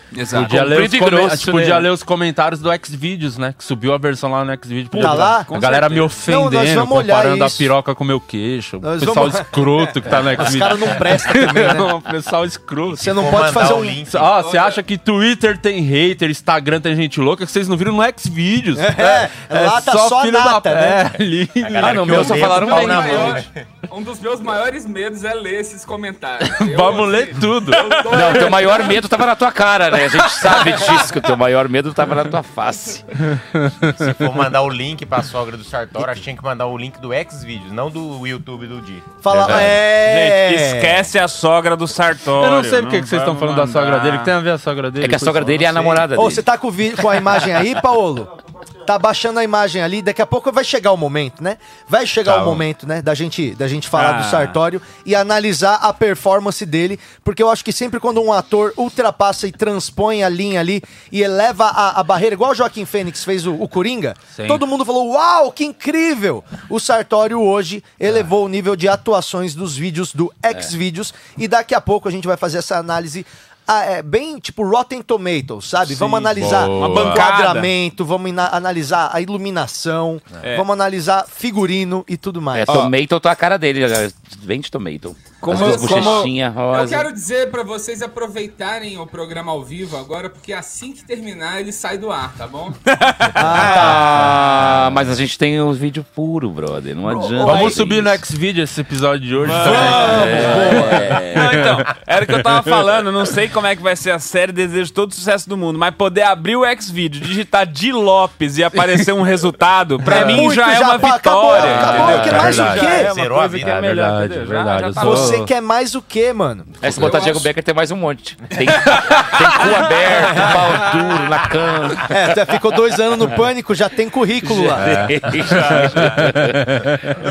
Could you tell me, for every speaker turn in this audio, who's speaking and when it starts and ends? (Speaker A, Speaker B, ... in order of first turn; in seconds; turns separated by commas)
Speaker A: 0.1-0.7, Speaker B: 0.3-13.4, Speaker C: 0.3-1.9, Speaker D: 4.9-5.5, Speaker A: 4.9-6.2, Speaker D: 6.2-7.7, Speaker D: 8.8-11.9, Speaker D: 13.0-14.0, Speaker E: 13.0-14.3, Speaker B: 14.0-23.0, Speaker F: 14.3-14.8, Speaker D: 18.8-21.1, Speaker E: 21.6-23.5, Speaker C: 21.8-23.4, Speaker D: 21.9-22.8, Speaker F: 22.4-29.0, Speaker B: 26.5-28.2, Speaker C: 28.1-33.0, Speaker B: 33.2-34.1, Speaker E: 33.9-39.2, Speaker D: 39.2-41.0, Speaker B: 39.4-39.6, Speaker A: 39.4-44.3, Speaker B: 42.4-46.0, Speaker C: 45.0-46.4, Speaker D: 45.9-48.3, Speaker D: 48.8-82.8, Speaker A: 53.9-54.6, Speaker B: 64.3-64.6, Speaker A: 76.0-77.7, Speaker B: 76.2-77.3, Speaker C: 82.5-87.1, Speaker A: 85.4-86.3, Speaker F: 85.5-92.8, Speaker A: 92.9-93.5, Speaker D: 93.3-94.4, Speaker C: 93.5-98.2, Speaker B: 97.4-100.5, Speaker A: 99.4-115.4, Speaker D: 99.6-101.1, Speaker C: 100.2-101.6, Speaker B: 101.4-101.8, Speaker D: 110.0-113.1, Speaker B: 110.1-110.5, Speaker E: 111.8-113.8, Speaker B: 111.8-113.0, Speaker B: 113.6-115.5, Speaker D: 115.0-117.2, Speaker C: 116.8-122.1, Speaker D: 120.2-120.6, Speaker D: 122.0-125.0, Speaker C: 124.4-126.7, Speaker B: 124.8-127.1